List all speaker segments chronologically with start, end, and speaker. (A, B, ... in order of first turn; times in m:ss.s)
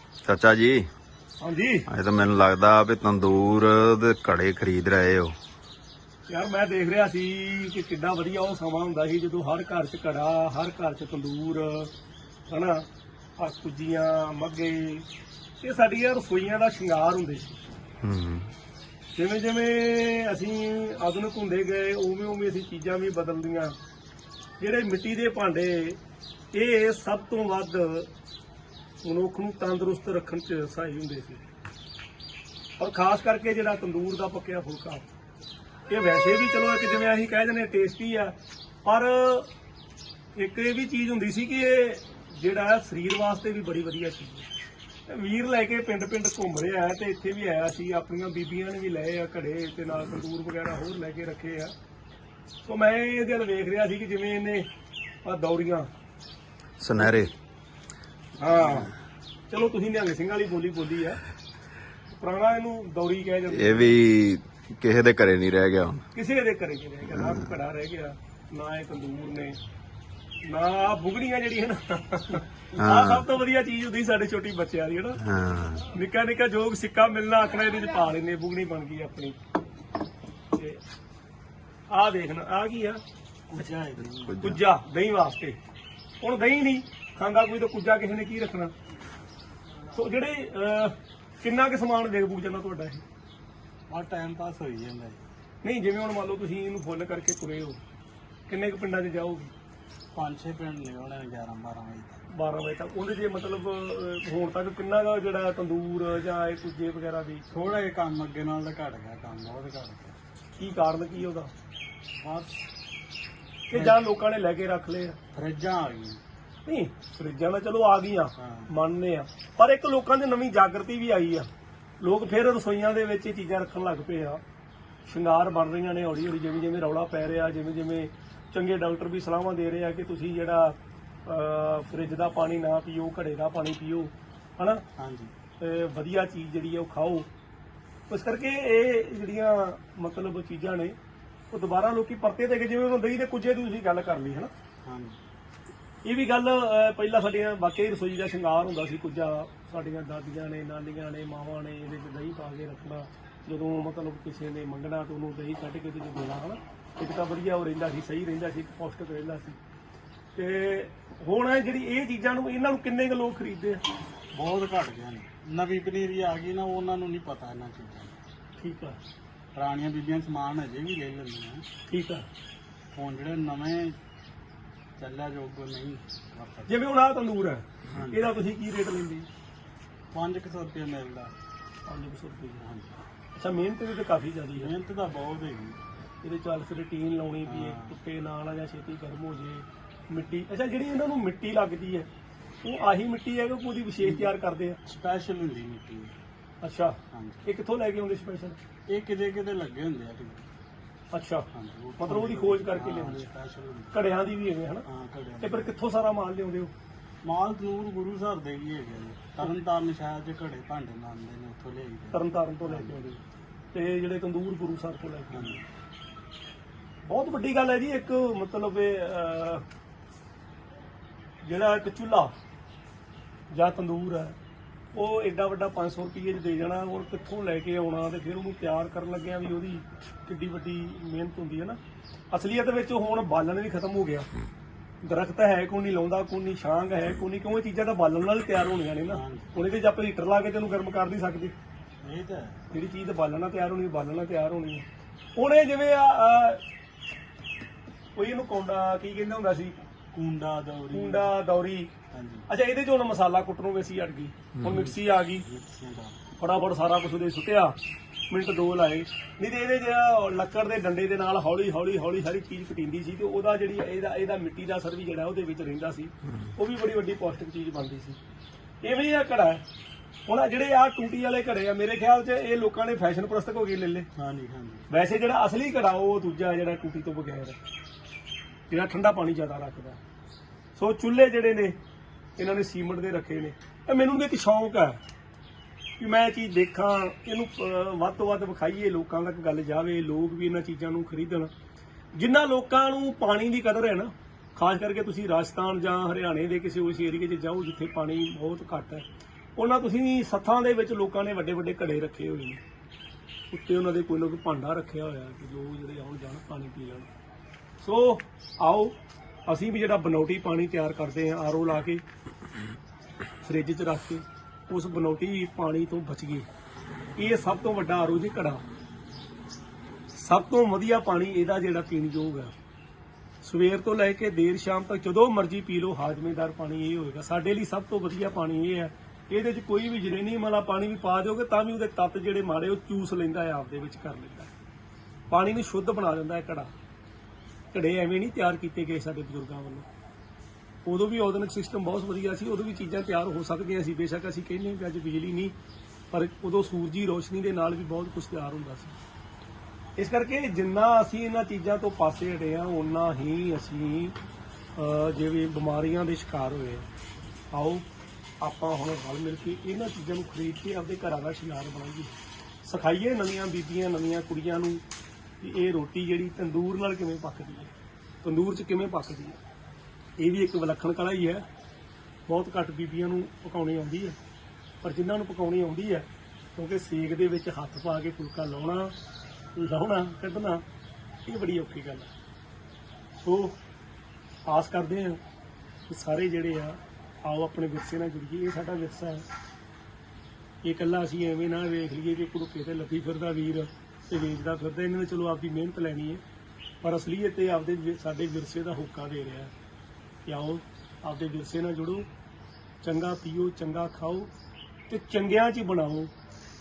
0:00.2-0:00.9 A
0:01.4-0:01.9 B
0:01.9-0:05.4 A
0:06.3-0:11.9 B
0:12.5-0:12.8 B
0:13.4-0:15.1 B
0:15.6-0:17.6 B
0:18.0-0:18.5 A
0:19.2-0:23.8 B
0:24.6-0:26.0 B
0:26.5-0:28.1 B
0:29.0-0:31.4 B
0:32.8-0:35.0 B
0:35.9-0:39.5 B
0:40.4-0:44.5 B
0:45.1-0:51.7 B
0:52.6-0:54.7 B
0:55.2-0:55.9 B
0:56.8-0:57.3 A
0:58.4-0:58.9 B
0:59.5-1:01.2 B
1:02.1-1:04.0 B
1:03.5-1:06.0 A
1:06.1-1:09.6 B
1:10.4-1:19.4 B
1:12.8-1:13.2 A
1:15.2-1:15.8 A
1:20.5-1:20.8 B
1:21.9-1:23.0 B
1:23.5-1:24.5 C
1:24.4-1:25.6 B
1:26.2-1:28.7 B
1:29.9-1:33.0 B
1:33.9-1:35.2 C
1:35.6-1:37.8 B
1:38.5-1:39.5 B
1:40.1-1:42.2 C
1:42.3-1:47.7 B
1:47.5-1:50.2 C
1:50.6-1:51.5 B
1:52.1-1:52.7 C
1:53.7-1:55.2 B
1:53.7-1:54.0 C
1:55.3-1:56.2 C
1:56.6-2:01.5 B
1:58.4-1:58.7 C
2:02.0-2:04.4 B
2:05.1-2:14.8 B
2:15.0-2:15.3 C
2:15.6-2:17.3 B
2:18.1-2:21.0 B
2:21.5-2:24.5 B
2:24.8-2:25.2 C
2:26.0-2:39.6 B
2:40.4-2:43.8 B
2:44.3-2:48.2 C
2:48.6-2:49.0 B
2:49.5-2:51.7 C
2:51.9-2:52.3 B
2:52.9-2:54.0 C
2:55.0-2:56.8 C
2:56.7-2:59.3 B
2:57.9-2:58.3 C
3:00.1-3:01.3 C
3:01.9-3:02.6 B
3:02.6-3:03.0 C
3:03.4-3:04.7 B
3:04.6-3:05.8 C
3:06.2-3:12.1 B
3:07.5-3:08.0 C
3:12.6-3:14.8 B
3:14.0-3:14.3 C
3:14.8-3:16.2 C
3:16.6-3:18.6 B
3:17.1-3:17.5 C
3:18.9-3:20.5 C
3:21.1-3:23.3 B
3:21.5-3:24.0 C
3:23.9-3:24.9 B
3:24.9-3:25.8 C
3:25.4-3:26.7 B
3:27.2-3:33.0 C
3:32.1-3:33.2 B
3:33.7-3:35.6 B
3:35.3-3:35.6 C
3:37.1-3:39.6 B
3:41.4-3:42.3 B
3:43.5-3:44.4 B
3:44.9-3:51.8 B
3:52.3-3:54.3 B
3:55.0-4:01.6 B
3:59.1-3:59.6 C
4:02.0-4:02.7 C
4:02.7-4:06.6 B
4:08.2-4:09.8 B
4:10.1-4:11.4 C
4:10.9-4:11.9 B
4:12.1-4:12.5 C
4:12.5-4:15.5 B
4:14.7-4:16.2 C
4:16.4-4:17.8 B
4:18.3-4:28.2 B
4:28.8-4:29.6 B
4:30.3-4:34.1 B
4:34.2-4:34.9 C
4:34.9-4:37.6 B
4:38.7-4:40.0 B
4:40.8-4:41.8 B
4:42.4-4:45.0 B
4:46.0-4:51.5 B
4:52.1-5:02.6 B
5:03.5-5:07.1 B
5:07.8-5:09.0 B
5:09.5-5:12.0 B
5:13.4-5:16.5 B
5:17.2-5:18.6 B
5:20.1-5:22.5 B
5:23.4-5:34.5 B
5:35.3-5:36.7 B
5:37.7-5:39.9 B
5:40.8-5:45.5 B
5:46.1-5:49.0 B
5:50.0-5:54.2 B
5:54.8-5:56.9 B
5:57.5-5:57.8 B
5:58.4-6:04.8 B
6:05.4-6:07.7 B
6:08.2-6:09.4 B
6:10.2-6:11.4 B
6:12.3-6:14.2 B
6:14.8-6:18.9 B
6:19.6-6:20.6 B
6:21.2-6:22.1 B
6:23.2-6:23.6 B
6:24.5-6:25.2 B
6:25.9-6:29.2 B
6:30.6-6:36.2 B
6:36.8-6:39.5 B
6:40.3-6:42.1 B
6:42.8-6:44.3 B
6:44.9-6:46.1 B